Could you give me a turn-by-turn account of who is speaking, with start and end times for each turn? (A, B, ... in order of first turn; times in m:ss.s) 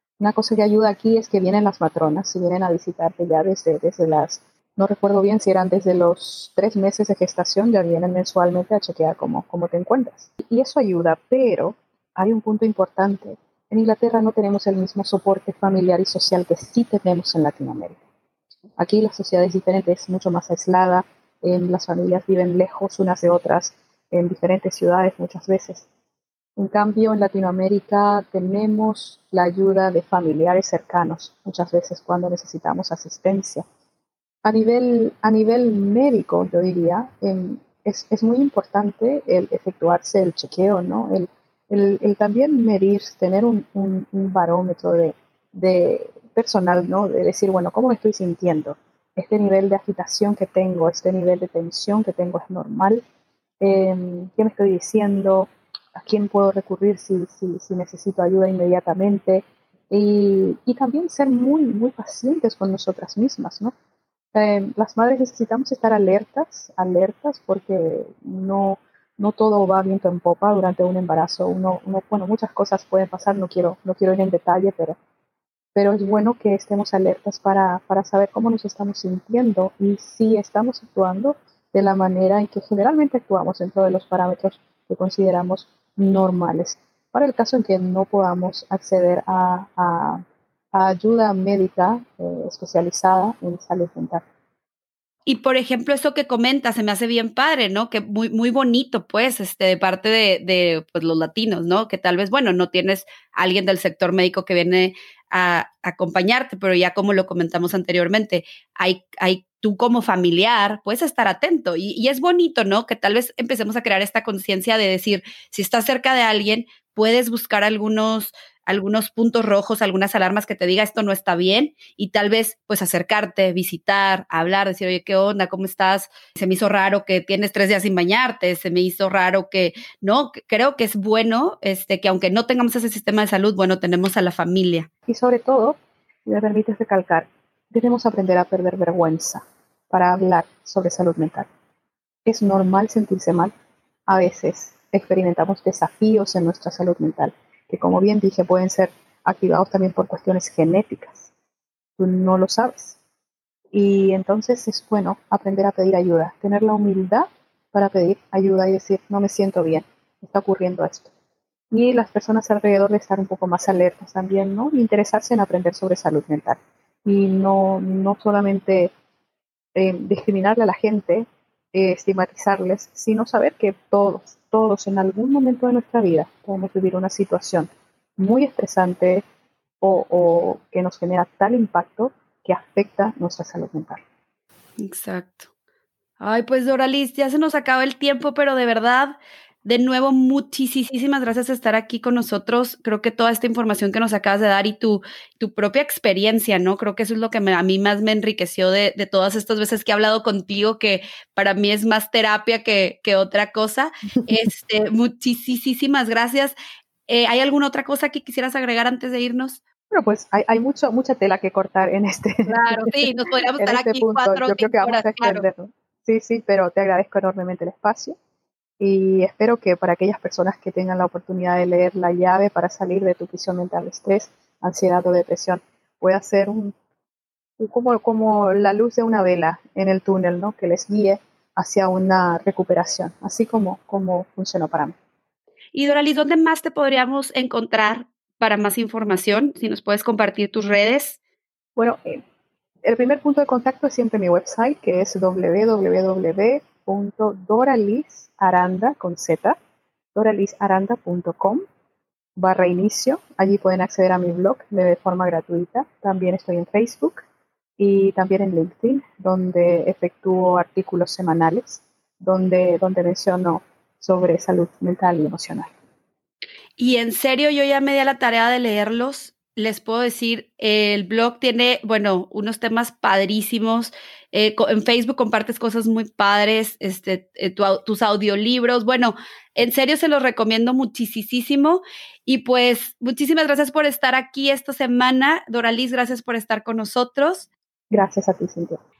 0:00.2-0:18.0 A
0:18.8-0:25.9 A
0:26.6-0:33.6 A
0:34.4-0:53.0 A
0:53.6-1:03.7 A
1:04.3-1:15.0 A
1:15.7-1:34.2 A
1:35.2-2:14.9 B
2:15.1-2:21.5 A
2:22.2-2:23.5 A
2:24.1-2:31.3 A
2:32.0-2:33.0 A
2:33.7-2:41.1 A
2:41.7-2:48.9 A
2:49.7-2:59.2 A
2:59.8-3:04.0 A
3:04.8-3:05.5 B
3:06.2-3:26.5 B
3:27.1-3:29.6 B
3:29.9-3:38.2 A
3:32.5-3:35.4 B
3:38.8-3:46.7 A
3:47.6-3:54.9 A
3:55.7-4:01.2 B
4:01.8-4:02.2 A
4:02.8-4:09.6 A
4:10.1-4:11.6 A
4:12.4-4:17.2 A
4:17.8-4:25.7 A
4:26.8-4:47.5 B
4:47.9-4:48.8 A